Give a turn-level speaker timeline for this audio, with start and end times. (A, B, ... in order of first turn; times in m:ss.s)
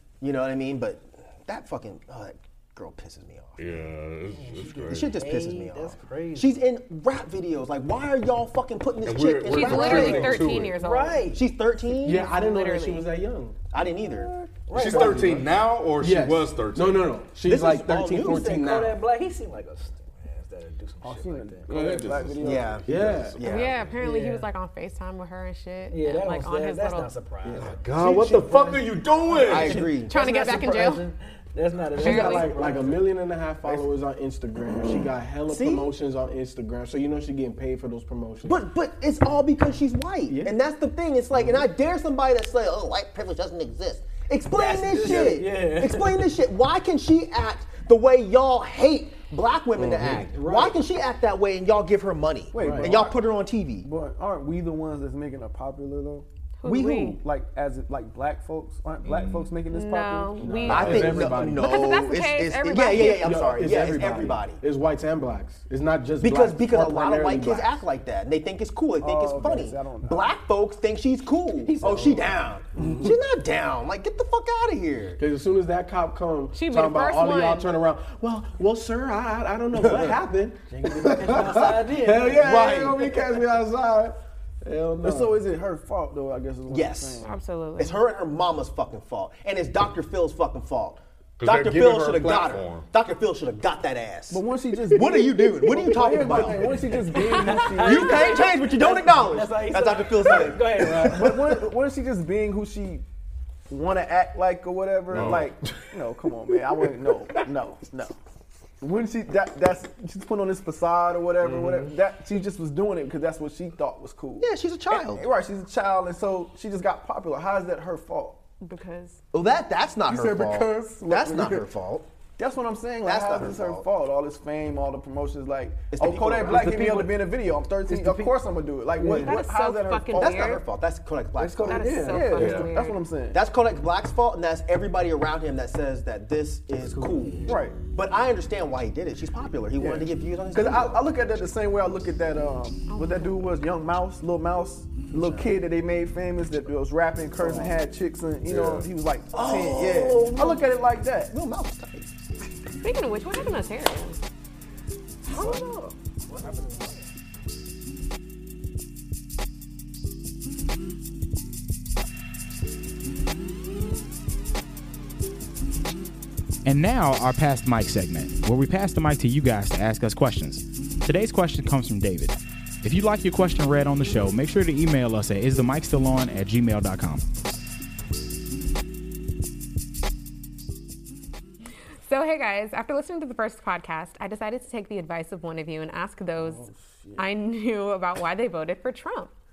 0:00.2-0:03.8 A
0:03.6-0:05.2 B
0:04.3-0:06.6 C
0:04.9-0:10.4 A
0:09.0-0:10.8 B
0:09.5-0:11.3 D
0:09.7-0:11.4 C
0:11.2-0:12.3 A
0:11.9-0:13.6 E
0:12.1-0:13.1 D
0:13.7-0:14.3 A
0:14.1-0:15.3 F
0:14.7-0:15.4 C
0:14.7-0:17.2 B
0:14.7-0:19.0 E
0:17.4-0:18.6 A
0:18.0-0:22.0 C
0:21.0-0:23.0 F
0:21.7-0:23.8 B
0:22.4-0:23.8 A
0:22.8-0:23.4 E
0:23.4-0:27.1 D
0:24.0-0:24.5 C
0:25.9-0:33.0 C
0:27.4-0:28.5 E
0:27.5-0:29.9 B
0:29.4-0:30.5 A
0:30.0-0:31.0 D
0:32.0-0:32.6 D
0:32.0-0:38.6 E
0:35.5-0:35.9 A
0:38.4-0:53.9 A
0:44.5-0:46.4 C
0:49.9-0:50.1 E
0:50.3-0:50.8 C
0:52.5-0:52.9 C
0:52.5-0:53.2 F
0:53.8-1:01.5 F
0:56.6-0:57.2 D
0:59.0-0:59.5 B
0:59.7-1:03.5 D
1:00.4-1:01.6 E
1:00.7-1:04.6 A
1:00.7-1:01.3 B
1:02.8-1:07.8 E
1:06.2-1:15.2 A
1:09.0-1:10.3 F
1:11.7-1:13.1 E
1:15.2-1:24.1 E
1:16.5-1:17.7 D
1:20.7-1:22.4 C
1:21.0-1:23.7 F
1:22.4-1:23.0 A
1:24.6-1:25.4 E
1:25.0-1:27.3 F
1:26.7-1:27.2 A
1:27.2-1:28.0 D
1:27.8-1:36.8 A
1:31.4-1:32.9 B
1:34.3-1:38.4 F
1:37.1-1:41.4 C
1:37.2-1:37.6 D
1:37.8-1:41.7 A
1:40.9-1:43.0 F
1:43.7-1:48.1 F
1:45.1-1:45.8 B
1:48.8-1:58.4 F
1:51.4-1:51.9 B
1:54.4-1:55.3 A
1:58.6-1:59.2 D
1:59.3-2:02.0 A
2:00.1-2:01.7 F
2:02.4-2:10.5 F
2:03.0-2:03.8 A
2:05.9-2:06.9 A
2:06.5-2:07.2 C
2:07.9-2:08.4 C
2:09.1-2:10.6 D
2:10.1-2:12.1 A
2:11.4-2:13.4 F
2:11.6-2:13.0 D
2:11.8-2:12.2 C
2:12.3-2:12.7 B
2:13.3-2:21.1 A
2:17.4-2:17.8 F
2:19.8-2:31.3 F
2:22.9-2:23.4 D
2:25.1-2:25.5 A
2:27.4-2:27.7 A
2:28.5-2:28.9 B
2:29.3-2:30.8 A
2:31.3-2:32.2 A
2:32.8-2:34.2 D
2:35.2-2:35.9 A
2:46.6-2:57.2 G
3:02.0-3:06.6 D
3:06.4-3:07.3 F
3:07.2-3:09.3 D